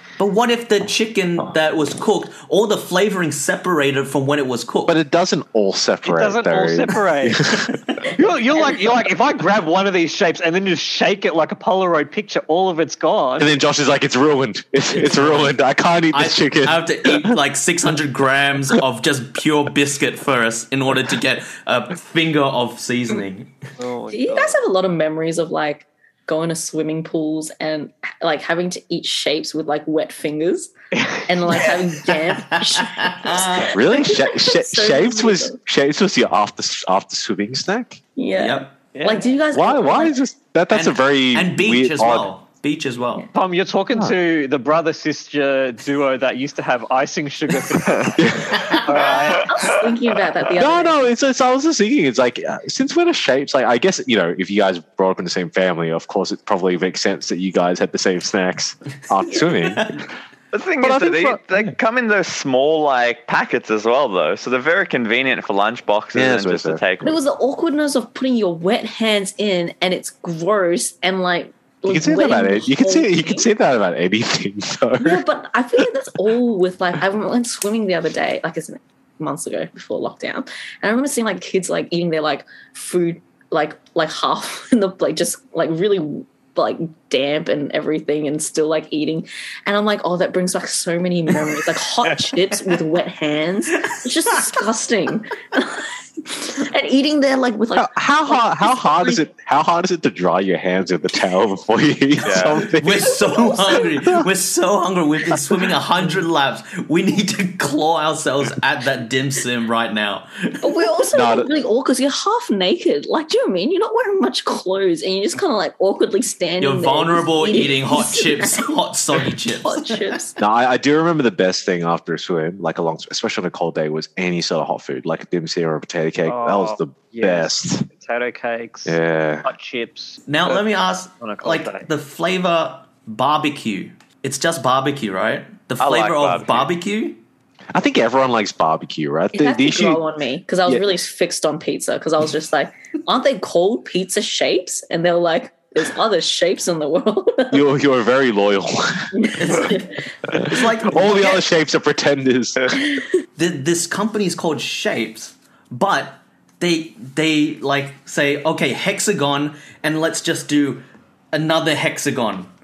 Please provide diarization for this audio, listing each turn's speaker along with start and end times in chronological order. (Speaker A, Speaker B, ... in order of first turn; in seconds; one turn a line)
Speaker A: 0.2-5.0
Speaker B: 4.9-7.8
Speaker C: 6.0-7.4
Speaker C: 8.1-13.5
Speaker B: 13.4-17.4
Speaker A: 16.1-23.6
Speaker C: 23.8-24.6
Speaker D: 24.1-30.7
Speaker C: 31.0-31.8
Speaker D: 31.2-35.6
Speaker A: 32.4-33.8
Speaker B: 33.7-38.0
Speaker D: 38.2-40.2
Speaker A: 38.4-38.8
Speaker C: 38.9-39.3
Speaker B: 39.5-42.3
Speaker A: 40.7-43.3
Speaker C: 43.3-49.5
Speaker B: 48.2-48.6
Speaker D: 49.3-51.1
Speaker B: 50.5-60.1
Speaker E: 60.5-67.2
Speaker B: 60.8-61.4
Speaker B: 66.1-66.8
Speaker D: 67.0-73.5
Speaker B: 71.9-75.2
Speaker D: 75.0-99.2
Speaker B: 97.8-104.3
Speaker E: 102.2-102.6
Speaker A: 102.8-110.6
Speaker D: 103.2-103.8
Speaker D: 110.6-118.7
Speaker B: 111.1-111.5
Speaker A: 116.6-120.2
Speaker D: 119.6-120.4
Speaker B: 120.4-127.9
Speaker C: 126.2-130.6
Speaker B: 128.9-129.5
Speaker A: 130.2-137.2
Speaker C: 131.2-131.9
Speaker E: 135.8-136.7
Speaker B: 137.7-140.0
Speaker D: 139.3-147.6
Speaker B: 147.5-149.1
Speaker D: 149.2-149.9
Speaker A: 149.4-151.5
Speaker B: 150.5-152.8
Speaker A: 153.3-162.5